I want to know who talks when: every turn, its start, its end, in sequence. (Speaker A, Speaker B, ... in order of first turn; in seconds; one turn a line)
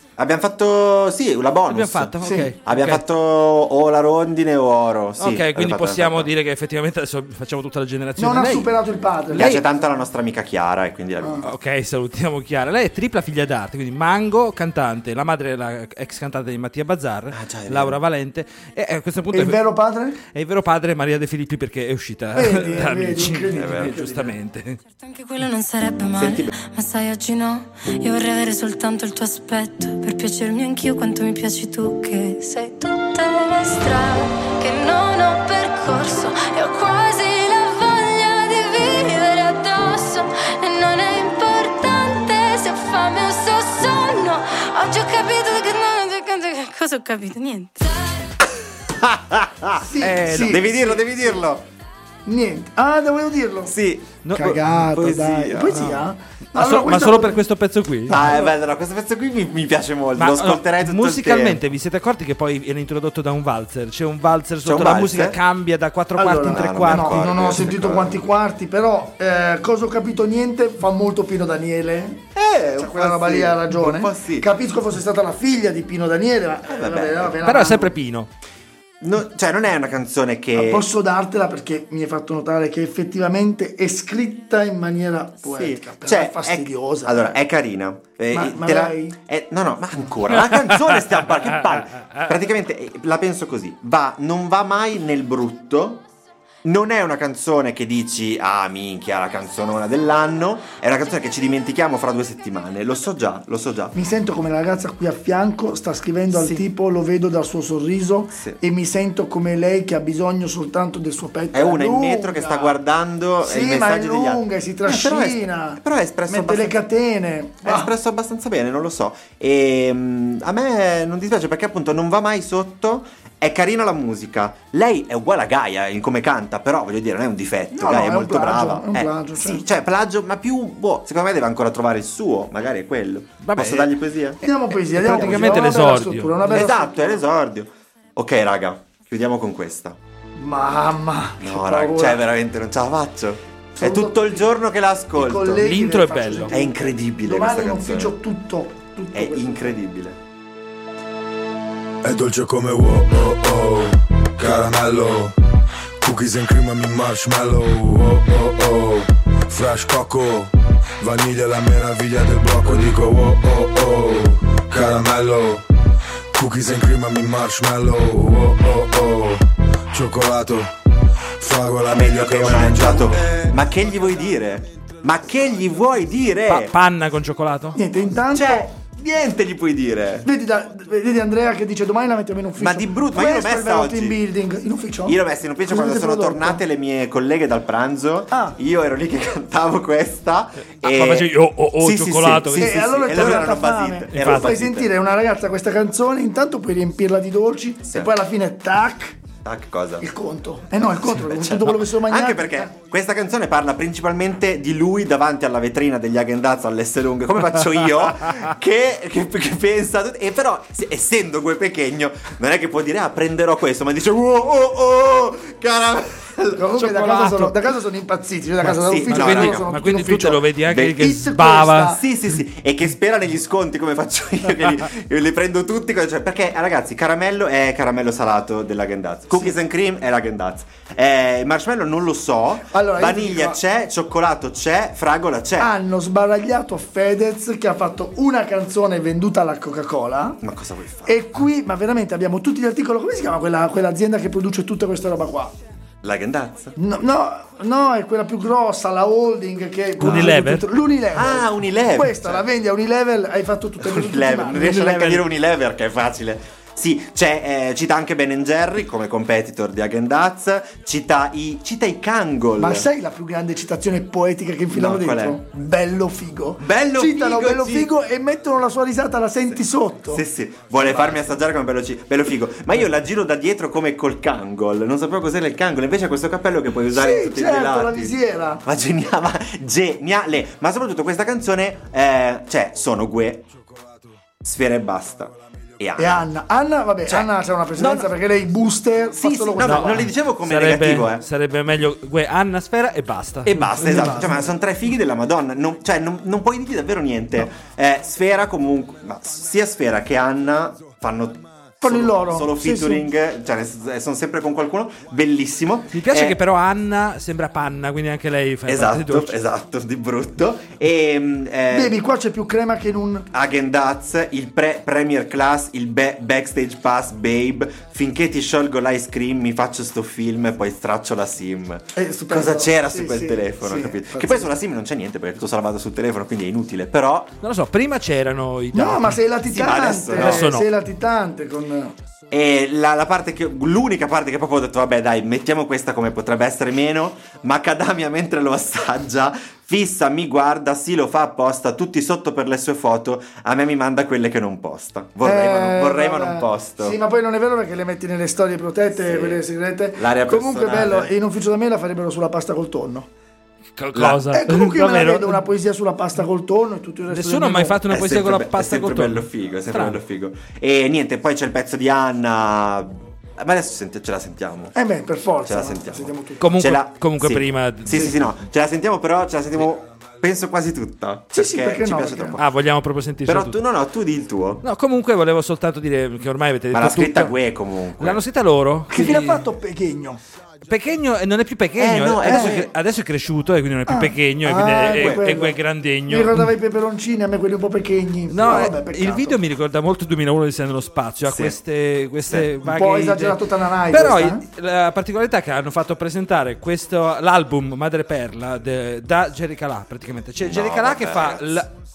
Speaker A: 0.2-6.3
Speaker B: 1.7-3.0
Speaker C: 2.2-2.5
Speaker B: 5.2-8.7
Speaker C: 8.2-9.5
Speaker B: 9.3-9.6
Speaker A: 9.4-11.4
Speaker B: 11.4-19.6
Speaker A: 17.3-18.0
Speaker C: 19.3-20.2
Speaker B: 20.3-24.8
Speaker C: 22.4-24.3
Speaker A: 23.6-24.0
Speaker D: 25.0-48.2
Speaker A: 26.1-26.5
Speaker A: 48.4-51.6
Speaker C: 49.8-51.0
Speaker B: 50.0-50.7
Speaker C: 52.3-53.8
Speaker A: 53.7-54.2
Speaker B: 54.2-58.2
Speaker C: 54.3-57.4
Speaker A: 54.9-55.8
Speaker A: 58.1-61.6
Speaker C: 58.1-58.5
Speaker B: 60.2-67.5
Speaker A: 64.6-65.4
Speaker C: 66.2-78.0
Speaker A: 66.4-68.2
Speaker A: 72.3-74.5
Speaker A: 76.7-77.4
Speaker B: 77.4-78.3
Speaker A: 79.0-80.9
Speaker C: 80.5-87.4
Speaker A: 85.5-96.0
Speaker C: 88.3-89.2
Speaker A: 96.6-104.0
Speaker C: 104.0-112.8
Speaker A: 108.3-108.6
Speaker A: 111.5-116.8
Speaker C: 113.4-117.9
Speaker A: 117.6-134.4
Speaker C: 127.7-129.6
Speaker B: 133.4-133.9
Speaker C: 134.4-137.2
Speaker B: 134.5-136.4
Speaker A: 135.2-135.7
Speaker A: 136.4-140.0
Speaker C: 140.4-142.2
Speaker A: 141.4-145.6
Speaker C: 143.8-144.5
Speaker C: 145.1-149.8
Speaker B: 145.6-146.5
Speaker A: 146.5-148.1
Speaker A: 149.1-150.2
Speaker E: 152.0-155.3
Speaker E: 156.0-165.6
Speaker E: 166.3-170.7
Speaker E: 171.4-174.2
Speaker A: 171.9-176.7
Speaker B: 176.5-177.8
Speaker C: 177.7-178.7
Speaker A: 178.3-180.3
Speaker C: 180.2-186.6
Speaker A: 182.6-184.2
Speaker A: 185.1-194.9
Speaker B: 190.8-193.5
Speaker C: 192.5-199.2
Speaker B: 194.1-194.5
Speaker A: 197.8-198.2
Speaker A: 199.4-200.1
Speaker C: 200.0-202.7
Speaker A: 200.9-217.4
Speaker C: 216.5-220.4
Speaker B: 217.0-217.5
Speaker A: 218.6-219.7
Speaker B: 219.1-222.0
Speaker A: 220.7-221.2
Speaker C: 220.9-222.0
Speaker A: 221.8-235.8
Speaker C: 232.7-233.6
Speaker C: 235.6-240.4
Speaker A: 240.4-241.2
Speaker C: 241.1-245.5
Speaker A: 246.0-246.7
Speaker C: 246.8-255.2
Speaker B: 250.0-250.7
Speaker A: 250.0-250.3
Speaker A: 251.1-252.4
Speaker A: 253.8-262.9
Speaker C: 262.6-270.2
Speaker A: 264.7-265.4
Speaker A: 266.6-267.9
Speaker A: 270.1-283.5
Speaker C: 276.9-278.6
Speaker A: 284.4-286.3
Speaker C: 286.0-290.1
Speaker A: 287.1-288.2
Speaker A: 289.2-291.2
Speaker B: 289.6-294.1
Speaker A: 293.4-306.4
Speaker C: 293.8-294.5
Speaker C: 301.8-303.1
Speaker B: 305.9-309.3
Speaker A: 308.6-312.0
Speaker C: 311.7-313.3
Speaker A: 313.3-327.3
Speaker C: 321.9-324.5
Speaker B: 327.4-329.2
Speaker C: 328.7-331.9
Speaker A: 329.5-330.5
Speaker B: 330.1-330.7
Speaker A: 332.3-347.0
Speaker C: 345.2-353.1
Speaker A: 349.0-349.4
Speaker A: 349.9-351.1
Speaker B: 353.8-355.4
Speaker A: 353.9-354.2
Speaker C: 354.3-357.8
Speaker B: 357.1-360.0
Speaker A: 357.9-364.7
Speaker C: 364.7-366.4
Speaker A: 365.4-372.5
Speaker B: 366.4-368.2
Speaker C: 371.3-372.4
Speaker B: 372.4-373.6
Speaker A: 373.3-374.6
Speaker B: 374.6-377.4
Speaker A: 376.7-378.2
Speaker B: 378.0-379.4
Speaker C: 378.9-380.2
Speaker B: 380.7-386.5
Speaker A: 381.8-382.7
Speaker C: 382.3-382.5
Speaker C: 383.9-389.4
Speaker B: 388.3-401.7
Speaker A: 391.2-391.6
Speaker C: 392.6-394.4
Speaker A: 400.4-401.6